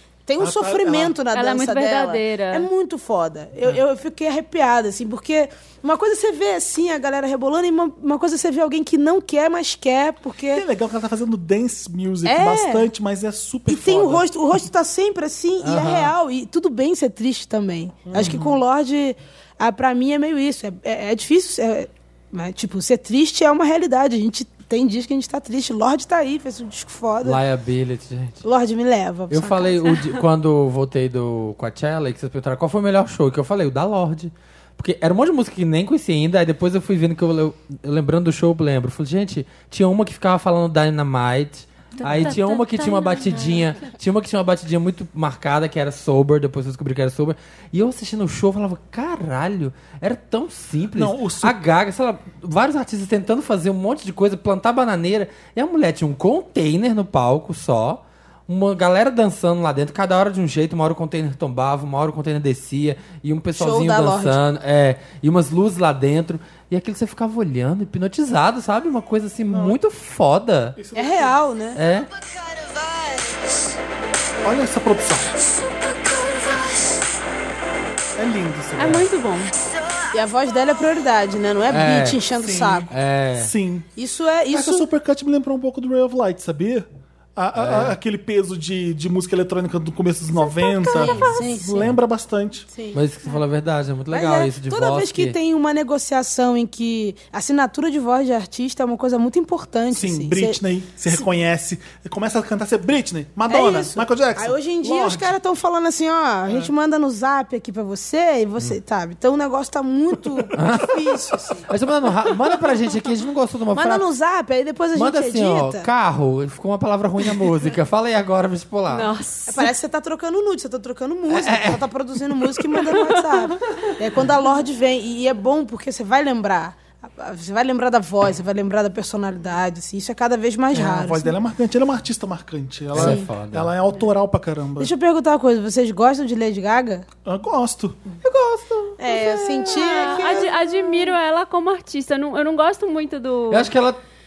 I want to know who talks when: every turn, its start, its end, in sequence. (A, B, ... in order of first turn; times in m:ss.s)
0:00.2-0:10.6 A
0:00.4-0:01.2 B
0:01.3-0:02.7 C
0:10.5-0:14.2 B
0:12.2-0:12.9 A
0:13.7-0:27.4 A
0:15.6-0:16.1 D
0:18.1-0:18.6 B
0:27.2-0:28.4 D
0:28.4-0:30.0 A
0:29.3-1:10.8 D
0:42.0-0:43.6 C
0:50.9-0:51.6 B
1:03.5-1:04.4 A
1:09.5-1:09.8 B
1:10.8-1:11.4 B
1:10.9-1:11.8 A
1:11.7-1:12.1 D
1:14.4-1:15.3 B
1:18.2-1:19.1 B
1:18.8-1:19.5 C
1:20.1-1:22.9 A
1:21.7-1:22.2 D
1:22.3-1:23.9 B
1:22.9-1:23.5 D
1:24.0-1:24.8 A
1:24.5-1:32.7 B
1:27.6-1:28.0 D
1:30.8-1:31.3 C
1:30.9-1:31.9 A
1:32.7-1:33.0 A
1:32.9-1:35.4 D
1:34.1-1:40.6 A
1:39.9-1:45.3 B
1:43.5-1:51.6 A
1:46.5-1:46.7 B
1:50.5-1:54.0 D
1:53.7-1:55.9 A
1:54.9-1:59.1 D
1:58.9-1:59.7 C
1:59.5-2:11.3 A
2:01.3-2:01.8 D
2:02.9-2:03.5 C
2:10.7-2:14.9 B
2:12.9-2:13.7 D
2:13.0-2:13.3 A
2:14.8-2:17.0 A
2:17.2-2:18.0 B
2:18.2-2:20.5 D
2:19.0-2:21.1 A
2:19.8-2:23.7 C
2:23.5-2:24.0 D